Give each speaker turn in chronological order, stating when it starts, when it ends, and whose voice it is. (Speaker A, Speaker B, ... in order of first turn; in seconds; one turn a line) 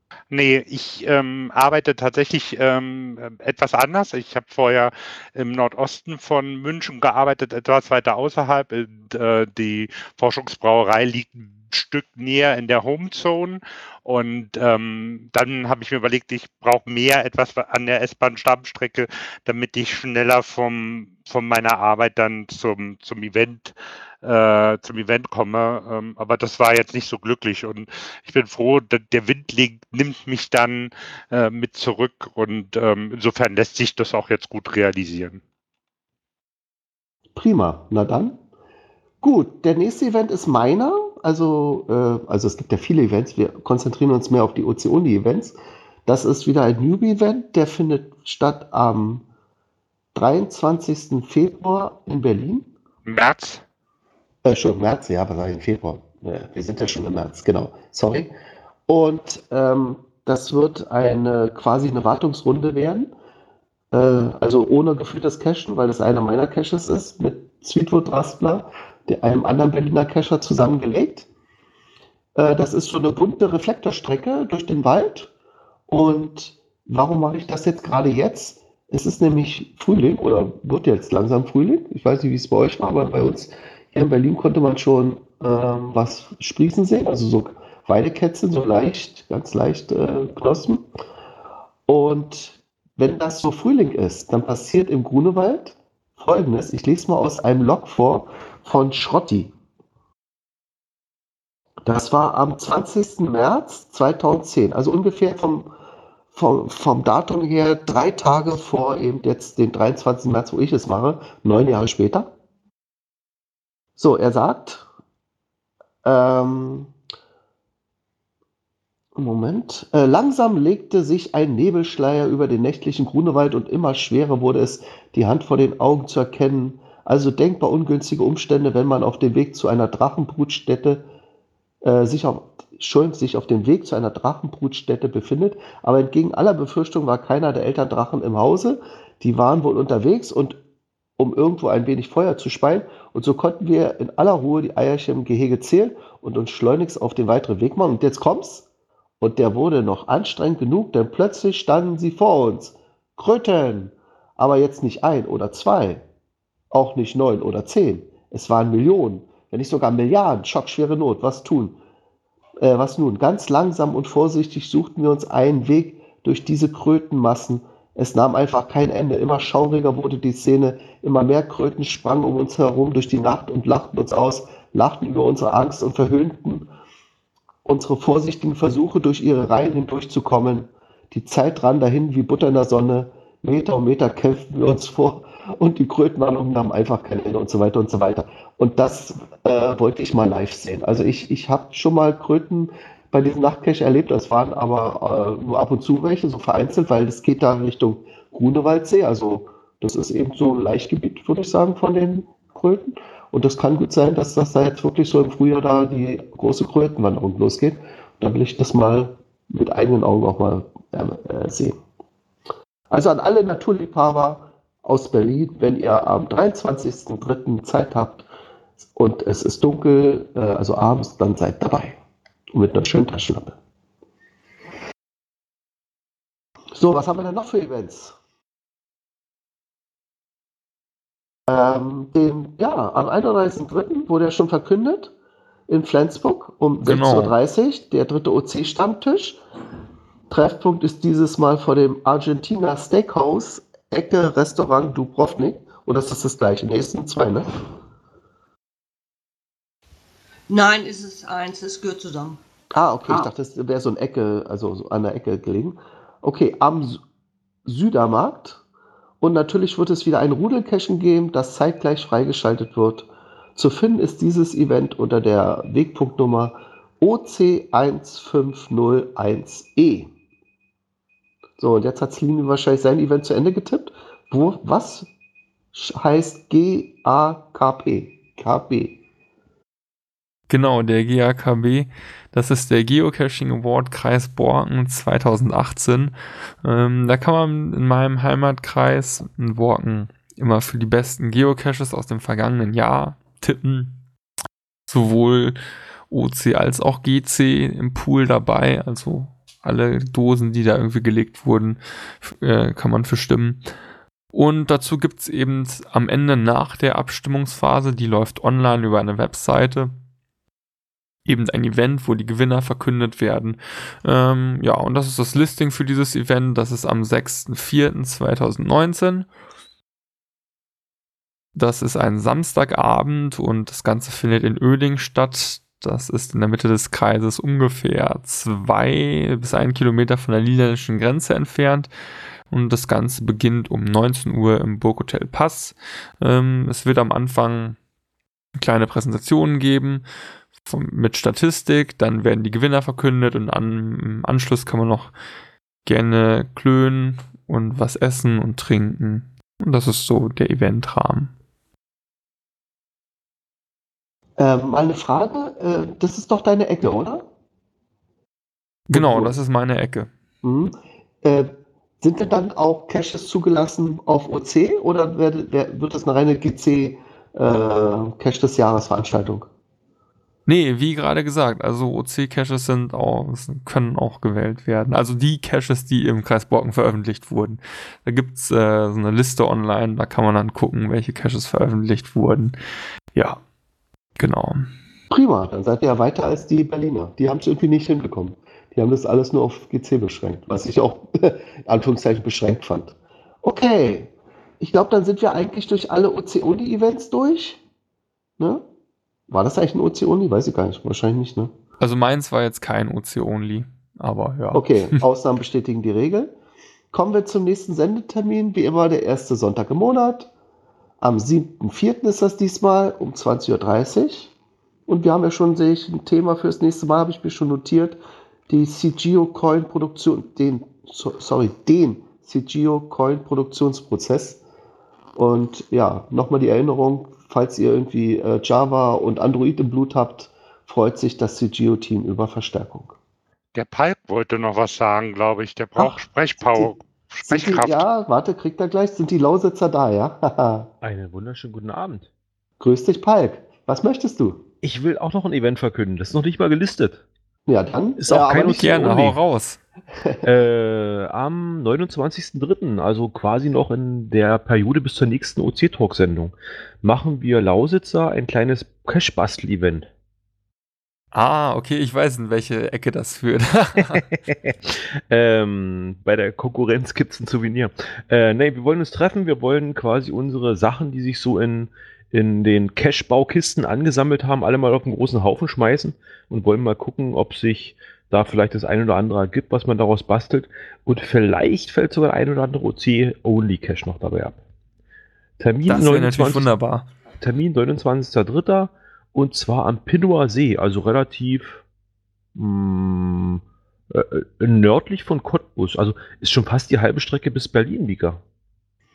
Speaker A: 0.3-35.4
Speaker B: 37.3-38.4
Speaker B: 39.2-45.5
Speaker B: 46.0-49.2
Speaker B: 50.1-52.7
Speaker A: 53.0-53.6
Speaker B: 54.4-58.3
Speaker B: 58.9-63.1
Speaker B: 63.9-71.3
Speaker B: 72.3-75.3
Speaker B: 75.9-90.8
Speaker B: 91.9-99.5
Speaker B: 101.8-105.7
Speaker B: 106.3-112.3
Speaker B: 114.0-114.8
Speaker B: 116.0-116.9
Speaker B: 119.2-131.0
Speaker B: 131.8-140.6
Speaker B: 141.2-148.6
Speaker B: 149.2-156.0
Speaker B: 156.7-161.8
Speaker B: 162.6-176.7
Speaker B: 177.6-211.8
Speaker B: 212.9-218.2
Speaker B: 218.8-222.0
Speaker B: 222.5-223.6
Speaker B: 226.8-228.2
Speaker B: 231.5-235.1
Speaker B: 235.7-239.4
Speaker C: 236.8-237.3
Speaker B: 240.3-247.5
Speaker D: 250.5-252.4
Speaker B: 252.7-257.0
Speaker D: 253.0-253.3
Speaker B: 257.6-258.6
Speaker B: 259.2-270.1
Speaker B: 271.6-275.1
Speaker B: 275.7-279.0
Speaker C: 280.5-294.0
Speaker C: 294.9-295.6
Speaker C: 296.1-303.6
Speaker C: 304.3-309.9
Speaker C: 311.2-319.3
Speaker C: 321.5-331.9
Speaker C: 332.5-337.8
Speaker C: 338.6-340.0
Speaker C: 340.6-345.1
Speaker C: 345.8-351.3
Speaker B: 354.4-357.2
Speaker C: 358.9-360.1
Speaker B: 358.9-359.3
Speaker B: 360.4-360.7
Speaker B: 361.2-361.5
Speaker B: 362.0-369.5
Speaker C: 370.4-382.5
Speaker C: 383.1-383.4
Speaker C: 384.2-384.7
Speaker B: 385.1-397.6
Speaker B: 399.3-401.5
Speaker C: 401.8-404.6
Speaker B: 404.5-406.3
Speaker B: 406.9-410.3
Speaker B: 411.0-414.3
Speaker B: 414.9-418.0
Speaker B: 418.5-424.4
Speaker B: 425.1-432.9
Speaker A: 433.5-437.9
Speaker B: 435.8-436.7
Speaker B: 437.3-440.7
Speaker E: 440.8-442.1
Speaker B: 442.6-444.4
Speaker E: 444.6-447.0
Speaker B: 447.5-448.6
Speaker E: 448.0-449.2
Speaker C: 448.1-449.6
Speaker E: 450.2-459.9
Speaker C: 461.1-464.1
Speaker E: 464.3-484.4
Speaker E: 485.4-486.5
Speaker C: 485.7-486.9
Speaker E: 487.2-491.6
Speaker E: 492.3-498.2